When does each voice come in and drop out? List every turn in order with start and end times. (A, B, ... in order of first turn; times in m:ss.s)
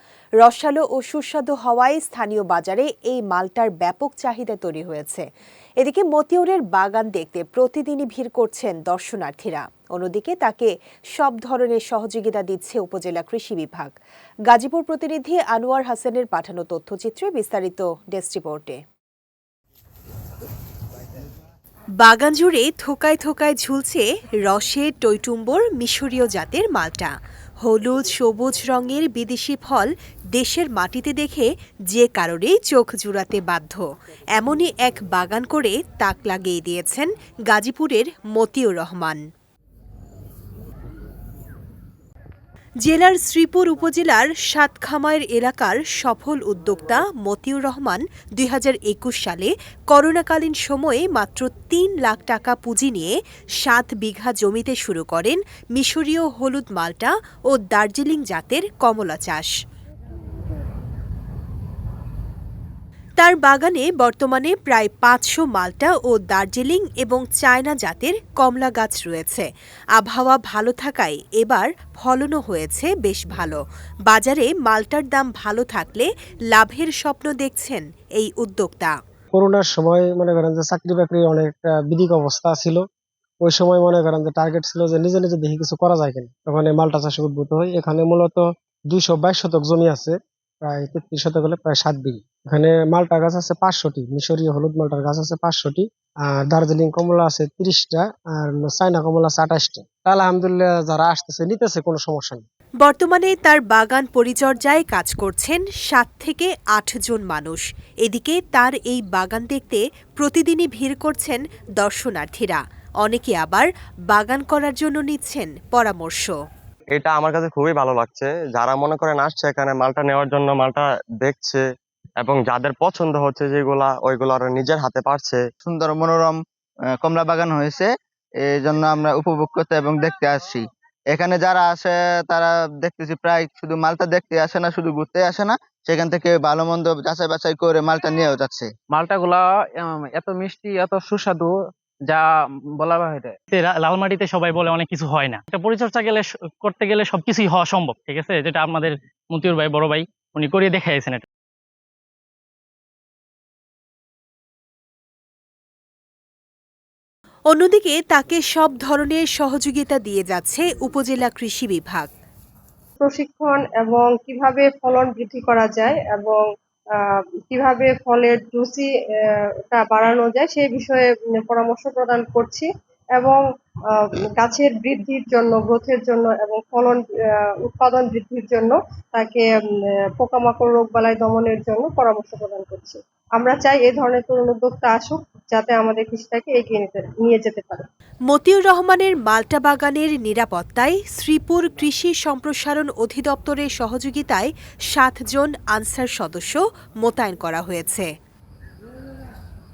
0:00.4-0:05.3 A
0:05.8-0:14.0 A
0:14.5-0:18.8 A
0:22.0-0:39.2 A
0:42.8-0:59.5 A
1:03.2-1:18.9 A
1:19.3-1:22.8 B
1:23.4-1:42.4 B
1:42.8-1:56.3 A
1:56.9-2:01.6 C
2:02.2-2:05.4 C
2:05.6-2:06.4 D
2:07.0-2:07.9 D
2:08.4-2:18.7 D
2:18.9-2:21.6 E
2:22.1-2:23.4 E
2:23.5-2:31.2 F
2:37.5-2:42.1 A
2:43.0-2:46.4 G
2:47.0-2:48.9 G
2:49.7-2:53.4 G
2:53.9-2:59.5 G
3:00.2-3:07.9 G
3:08.3-3:18.1 A